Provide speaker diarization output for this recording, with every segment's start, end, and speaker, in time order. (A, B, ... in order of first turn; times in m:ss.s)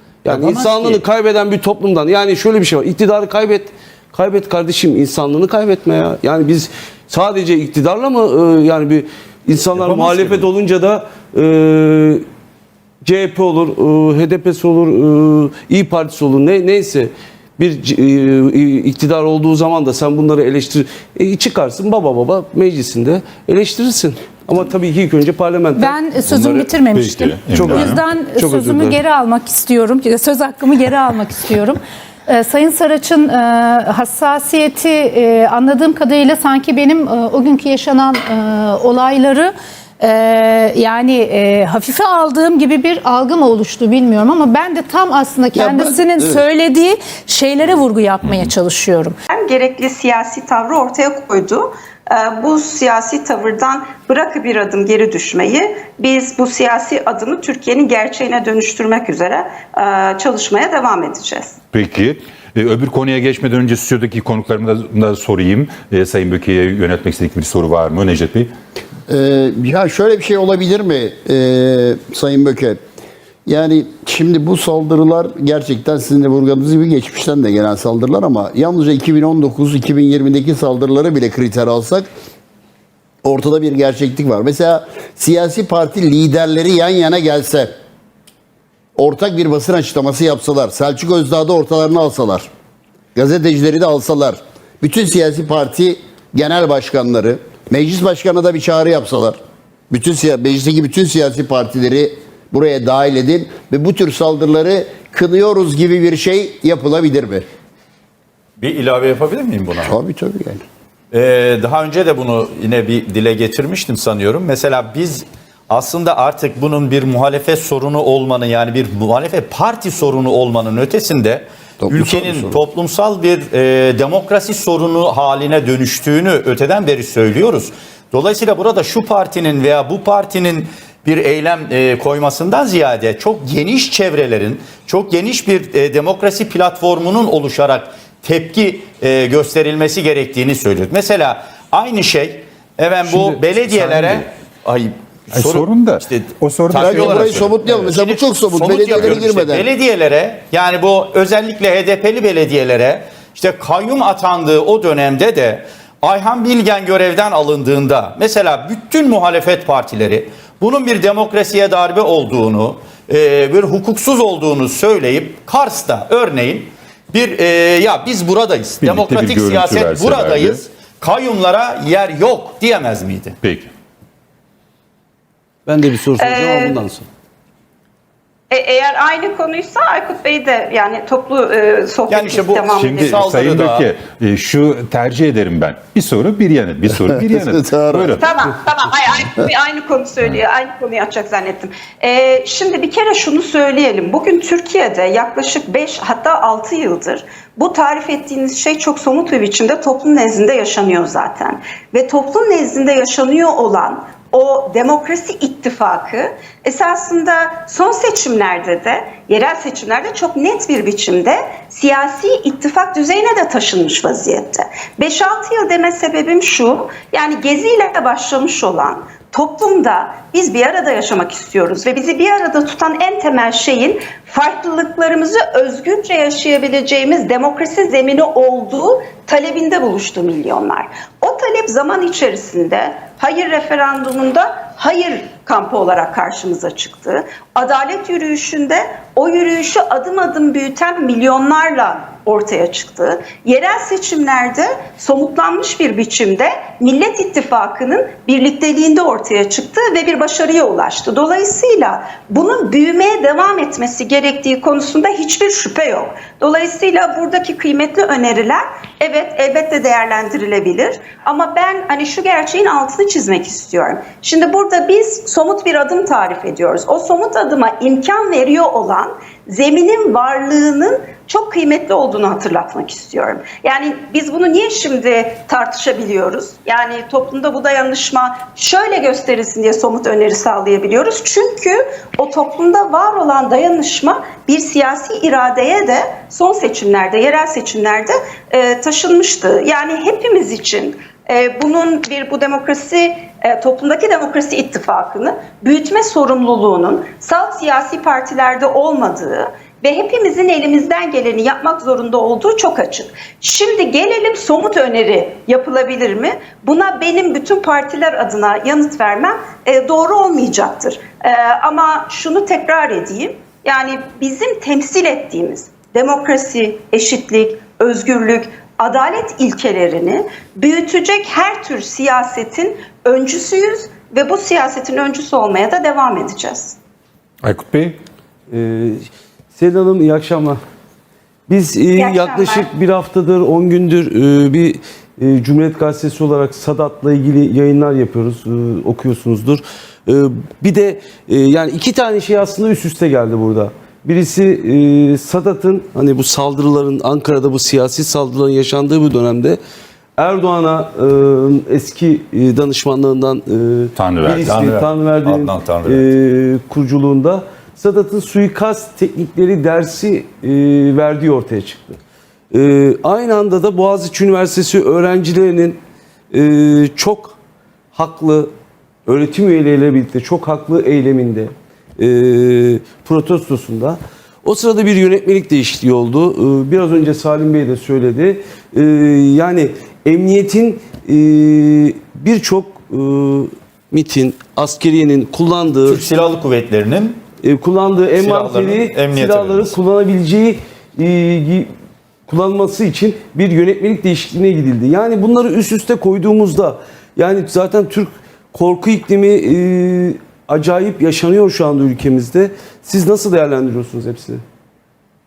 0:00.2-0:12.2 A
0:00.3-0:01.0 B
0:09.8-0:10.5 B
0:13.0-0:26.0 A
0:25.8-0:49.1 C
0:26.3-0:28.0 D
0:27.5-0:29.0 A
0:45.5-0:46.4 E
0:48.2-0:48.5 D
0:49.3-1:01.6 F
1:01.7-1:08.5 D
1:09.1-1:12.8 E
1:13.4-1:22.1 E
1:23.2-1:27.7 E
1:29.0-1:32.5 E
1:33.1-1:39.4 E
1:39.9-1:47.4 E
1:48.6-1:49.9 B
1:49.8-1:50.6 E
1:51.1-2:53.4 B
2:01.8-2:02.6 E
2:23.1-2:24.2 D
2:25.3-2:27.5 D
2:26.7-2:29.7 E
2:48.8-2:50.6 D
2:53.4-2:53.7 D
2:55.6-2:57.1 A
2:56.1-2:56.8 F
2:58.5-3:03.2 F
3:02.1-3:03.9 B
3:02.7-3:08.3 D
3:07.1-3:08.2 E
3:08.2-5:26.8 F
5:27.4-5:28.0 D
5:28.5-5:30.6 A
5:31.5-5:49.6 A
5:32.0-5:32.7 F
5:50.2-6:02.0 A
5:54.0-5:54.5 D
5:54.3-5:56.0 B
5:55.8-5:56.0 D
6:02.5-6:05.8 A
6:06.3-6:07.4 A
6:07.9-6:08.5 A
6:09.0-6:26.0 A
6:25.8-6:27.2 B
6:27.4-6:31.7 A
6:28.1-6:29.7 B
6:32.3-6:44.4 A